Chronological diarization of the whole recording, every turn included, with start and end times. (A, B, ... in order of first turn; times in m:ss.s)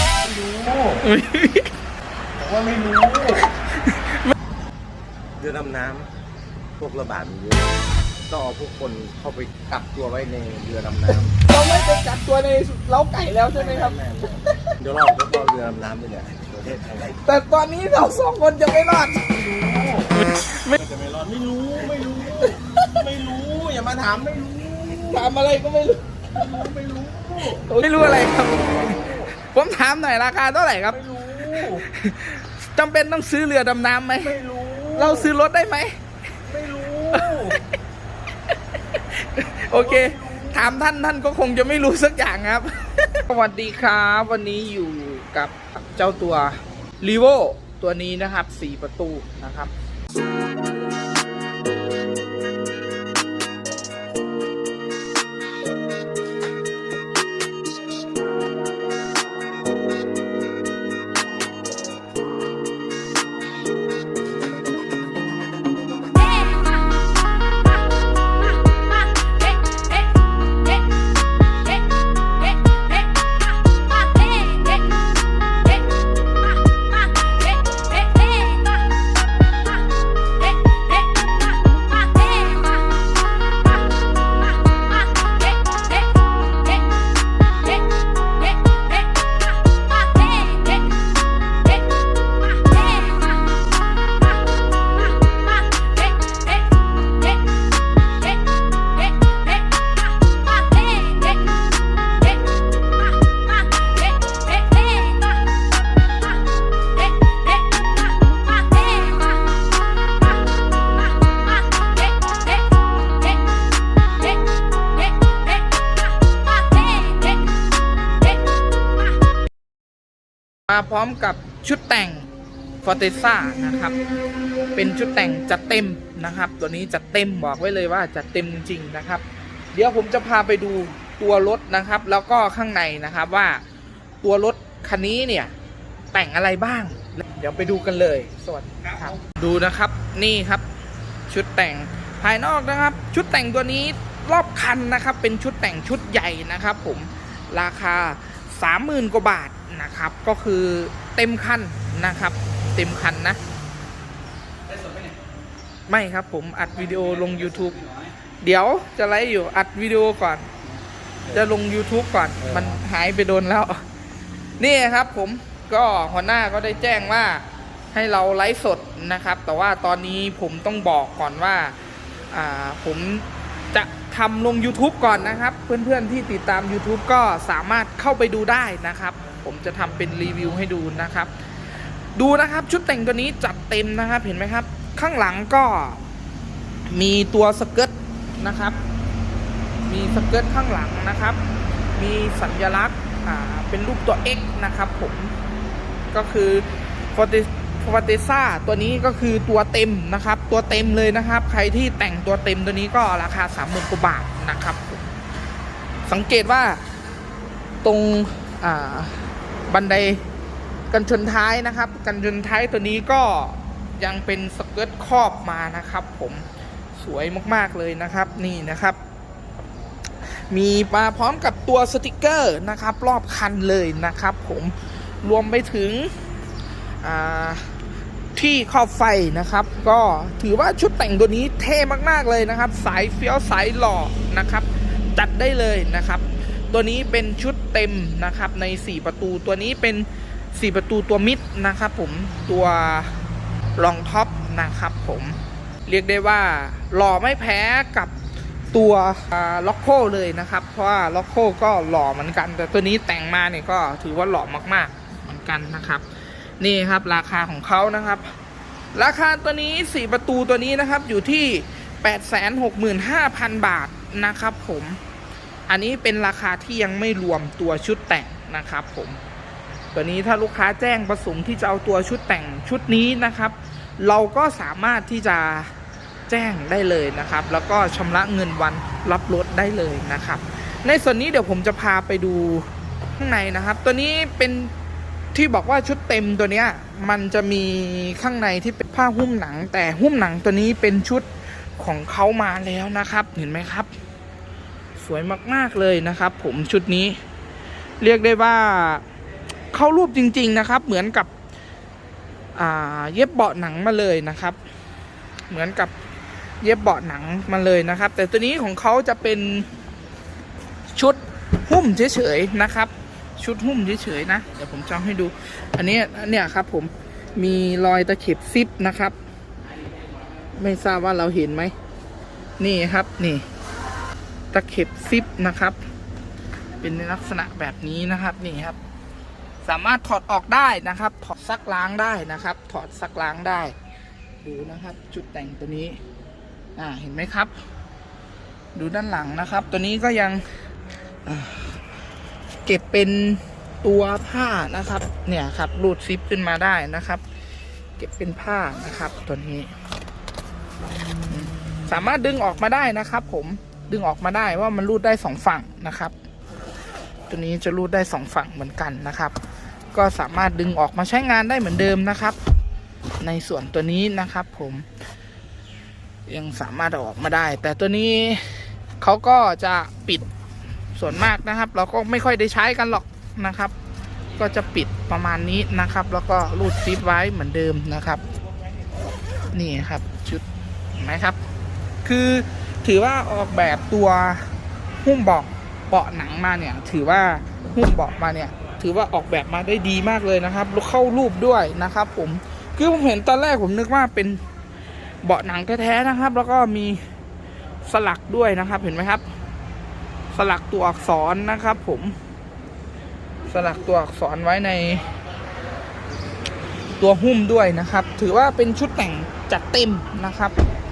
0:00.2-0:01.1 A
0:01.0-0:01.7 B
0:02.4-0:03.5 A
0:03.4-0:04.3 B
0:05.4-0:06.1 A
0:06.8-0:07.8 A
0:08.3-0:11.4 A
0:11.1-0:13.9 B
0:13.6-0:17.2 A
0:17.1-0:19.3 B
0:19.3-0:20.1 A
0:20.1-0:20.8 B
0:20.7-0:25.3 A
0:22.4-0:22.9 B
0:25.0-0:26.4 B
0:26.3-0:27.6 A
0:27.4-0:34.4 B
0:28.6-0:29.3 A
0:30.9-0:31.8 A
0:34.2-0:35.3 A
0:34.9-0:35.9 B
0:36.5-0:37.6 A
0:37.1-0:37.7 B
0:39.0-0:49.7 B
0:39.7-0:40.6 A
1:56.8-1:57.3 B
2:00.7-2:02.3 B
2:02.8-2:04.0 B
2:04.8-2:13.6 B
2:14.2-2:15.5 B
2:16.1-2:20.7 B
2:21.3-2:33.4 B
2:35.9-2:40.5 B
2:41.3-2:43.8 B
2:44.6-2:51.8 B
2:52.3-3:01.3 B
3:02.2-3:06.0 B
3:06.9-3:08.8 B
3:09.9-3:11.4 B
3:12.0-3:15.3 B
3:16.1-3:25.1 B
3:26.1-3:26.8 B
3:27.8-3:30.2 B
3:30.9-3:36.4 B
3:37.0-3:39.0 B
3:40.5-3:46.1 B
3:47.0-3:47.7 B
3:48.3-4:03.2 B
4:03.8-4:08.2 B
4:08.7-4:16.1 B
4:16.6-4:18.3 B
4:19.0-4:25.0 B
4:25.7-4:29.2 B
4:29.9-4:35.7 B
4:36.3-4:44.7 B
4:45.3-4:53.9 B
4:55.0-4:57.2 B
4:58.0-4:59.0 B
4:59.7-5:01.3 B
5:02.6-5:04.6 B
5:05.5-5:05.9 B
5:06.6-5:09.7 B
5:10.9-5:19.2 B
5:20.6-5:21.7 B
5:22.6-5:23.4 B
5:24.5-5:25.8 B
5:26.8-5:28.8 B
5:29.6-5:33.8 B
5:34.4-5:36.0 B
5:36.8-5:37.5 B
5:38.8-5:40.4 B
5:41.3-5:41.8 B
5:42.6-5:47.2 B
5:48.0-5:49.7 B
5:51.3-5:56.1 B
5:57.3-5:59.4 B
5:59.9-6:02.4 B
6:03.2-6:04.9 B
6:06.3-6:10.3 B
6:11.0-6:13.7 B
6:14.4-6:18.2 B
6:19.5-6:20.4 B
6:21.0-6:21.4 B
6:22.0-6:24.5 B
6:25.0-6:34.4 B
6:35.2-6:37.0 B
6:37.9-6:39.2 B
6:40.3-6:42.2 B
6:43.5-6:45.0 B
6:47.0-6:50.5 B